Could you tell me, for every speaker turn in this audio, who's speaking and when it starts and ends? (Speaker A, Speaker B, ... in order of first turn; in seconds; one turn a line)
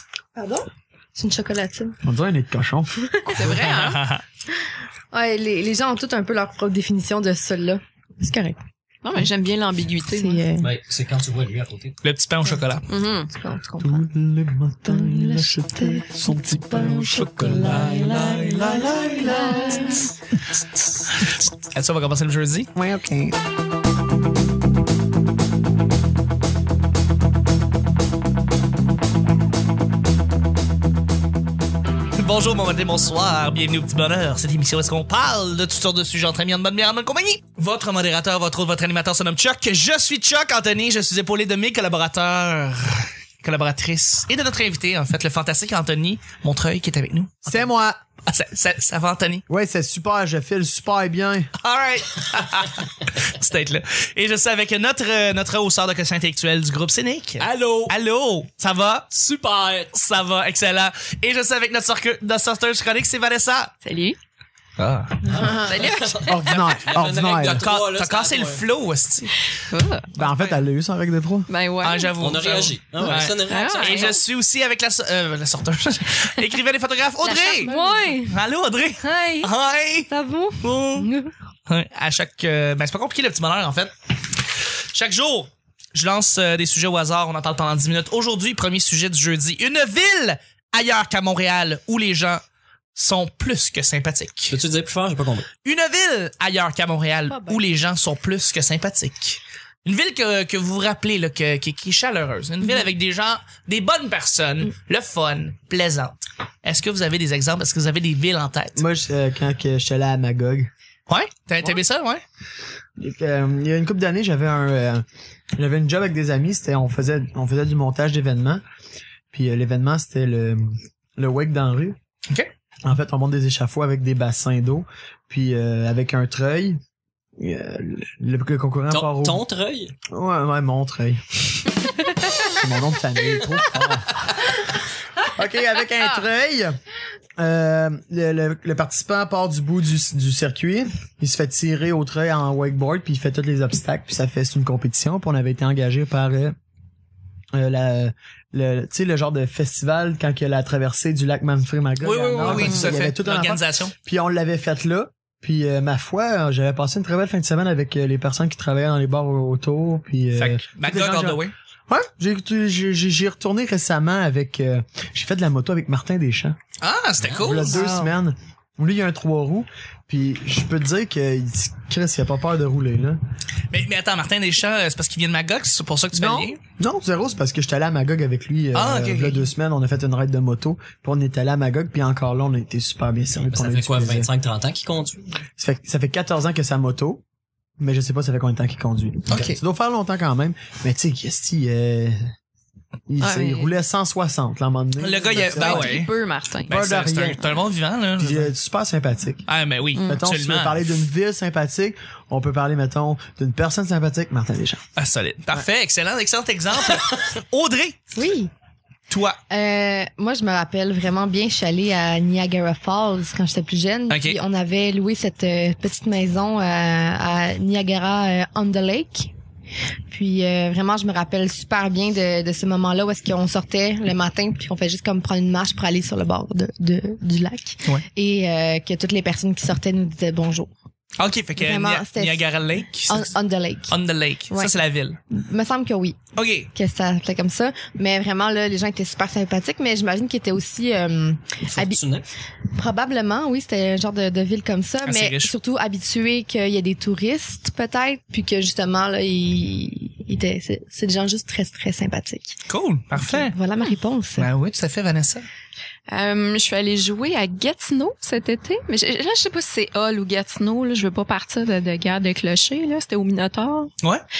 Speaker A: 0.3-1.9
Speaker B: 2.0-2.9
Speaker A: 3.0-3.5
Speaker C: 3.2-4.1
Speaker D: 3.4-4.2
Speaker A: 5.1-8.6
Speaker C: 9.0-10.4
Speaker A: 10.1-10.7
Speaker E: 10.6-12.0
Speaker D: 12.0-12.8
Speaker C: 12.9-13.3
Speaker A: 13.3-14.0
Speaker B: 13.8-20.1
Speaker A: 14.8-18.5
Speaker D: 17.4-18.8
Speaker C: 19.4-20.1
Speaker D: 21.2-22.7
Speaker B: 22.8-23.3
Speaker D: 32.1-47.7
Speaker B: 47.4-48.0
Speaker D: 48.3-49.4
Speaker B: 49.5-51.5
Speaker D: 51.6-59.1
Speaker E: 57.4-58.0
Speaker E: 59.1-59.9
Speaker D: 59.9-63.7
Speaker C: 63.8-64.2
Speaker D: 64.8-65.3
Speaker E: 65.2-68.7
Speaker C: 65.3-66.6
Speaker B: 66.3-67.6
Speaker D: 67.5-69.3
Speaker C: 69.6-70.1
Speaker D: 70.2-70.6
Speaker B: 70.2-71.5
Speaker C: 71.5-72.2
Speaker D: 71.8-77.7
Speaker E: 72.2-74.2
Speaker C: 73.5-74.2
Speaker C: 77.2-78.4
Speaker A: 77.6-78.1
Speaker D: 78.2-81.1
Speaker C: 79.0-79.5
Speaker A: 80.1-81.3
Speaker D: 81.7-83.9
Speaker D: 84.9-92.4
Speaker D: 93.0-94.6
Speaker E: 94.5-95.5
Speaker D: 95.6-108.8
Speaker A: 97.3-97.6
Speaker B: 108.8-110.7
Speaker D: 111.1-112.2
Speaker B: 113.0-115.0
Speaker B: 115.6-118.6
Speaker B: 119.3-122.0
Speaker B: 122.8-126.8
Speaker B: 127.4-129.4
Speaker E: 128.9-129.9
Speaker B: 130.1-131.2
Speaker B: 132.4-134.6
Speaker B: 135.2-136.7
Speaker B: 137.4-146.5
Speaker B: 147.5-166.6
Speaker D: 152.0-153.9
Speaker C: 152.4-152.9
Speaker D: 160.3-161.5
Speaker D: 166.8-168.1
Speaker E: 167.2-167.6
Speaker B: 167.4-173.2
Speaker D: 173.7-176.6
Speaker B: 176.1-184.3
Speaker D: 178.7-179.5
Speaker E: 183.5-185.2
Speaker B: 185.6-187.2
Speaker B: 187.8-192.2
Speaker D: 189.3-189.6
Speaker B: 193.1-196.0
Speaker C: 193.2-193.8
Speaker D: 195.0-196.1
Speaker C: 195.3-196.8
Speaker B: 196.7-197.4
Speaker D: 196.7-198.5
Speaker B: 198.2-199.4
Speaker D: 199.5-200.8
Speaker C: 199.9-200.2
Speaker B: 200.1-204.8
Speaker D: 205.0-208.0
Speaker A: 208.1-208.5
Speaker D: 209.1-209.4
Speaker A: 209.5-219.3
Speaker D: 214.1-214.4
Speaker A: 220.1-230.7
Speaker D: 231.2-233.3
Speaker A: 231.6-232.5
Speaker A: 233.1-233.9
Speaker D: 233.9-235.2
Speaker A: 235.3-236.2
Speaker D: 236.3-236.7
Speaker A: 236.7-242.0
Speaker E: 241.7-242.3
Speaker A: 242.7-252.6
Speaker D: 245.0-245.5
Speaker D: 252.7-253.5
Speaker A: 253.1-254.5
Speaker D: 254.4-255.4
Speaker C: 256.1-263.9